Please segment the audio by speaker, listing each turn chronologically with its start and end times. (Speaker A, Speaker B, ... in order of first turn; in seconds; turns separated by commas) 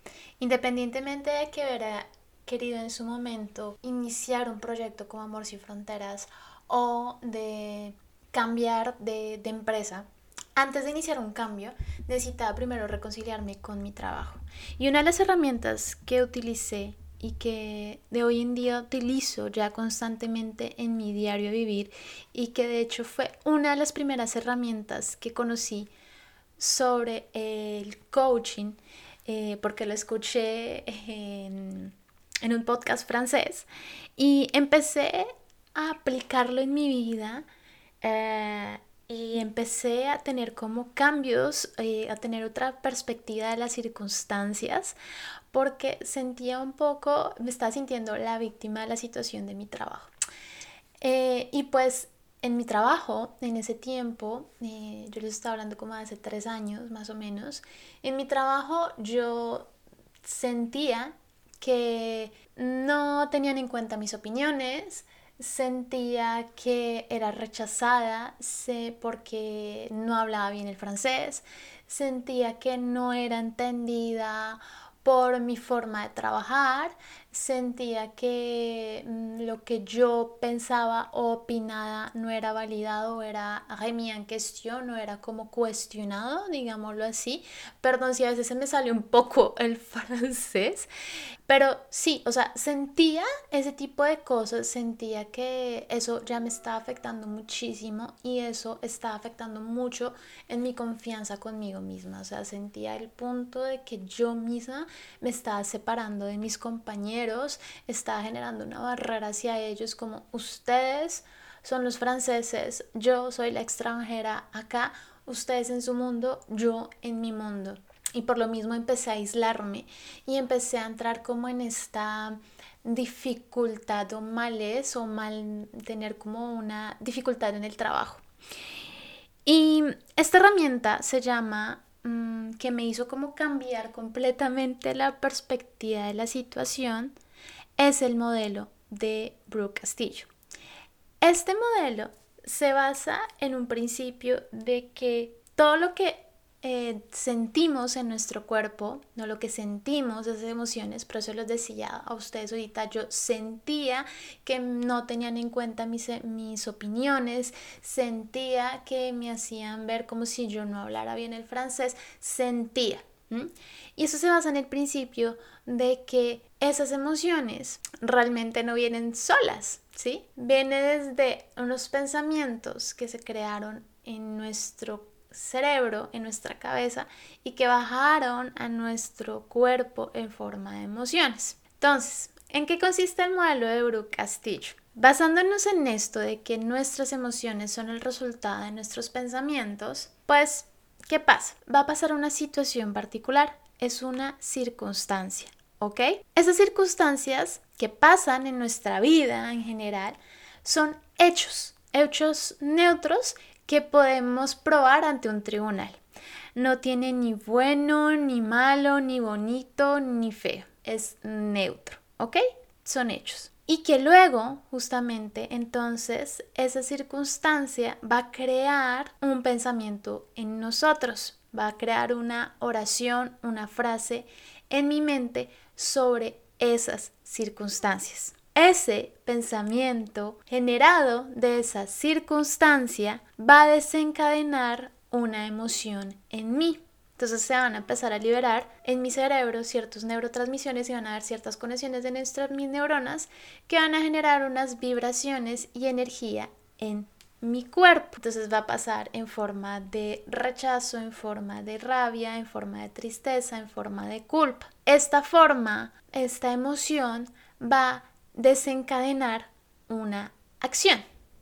Speaker A: 0.4-25.9, Speaker A: 26.6-37.5, Speaker A: 38.0-45.0, Speaker A: 45.5-50.1, Speaker A: 51.0-59.7, Speaker A: 60.2-90.9, Speaker A: 91.5-128.2, Speaker A: 129.4-137.1, Speaker A: 137.8-140.3, Speaker A: 141.2-206.0, Speaker A: 206.5-261.1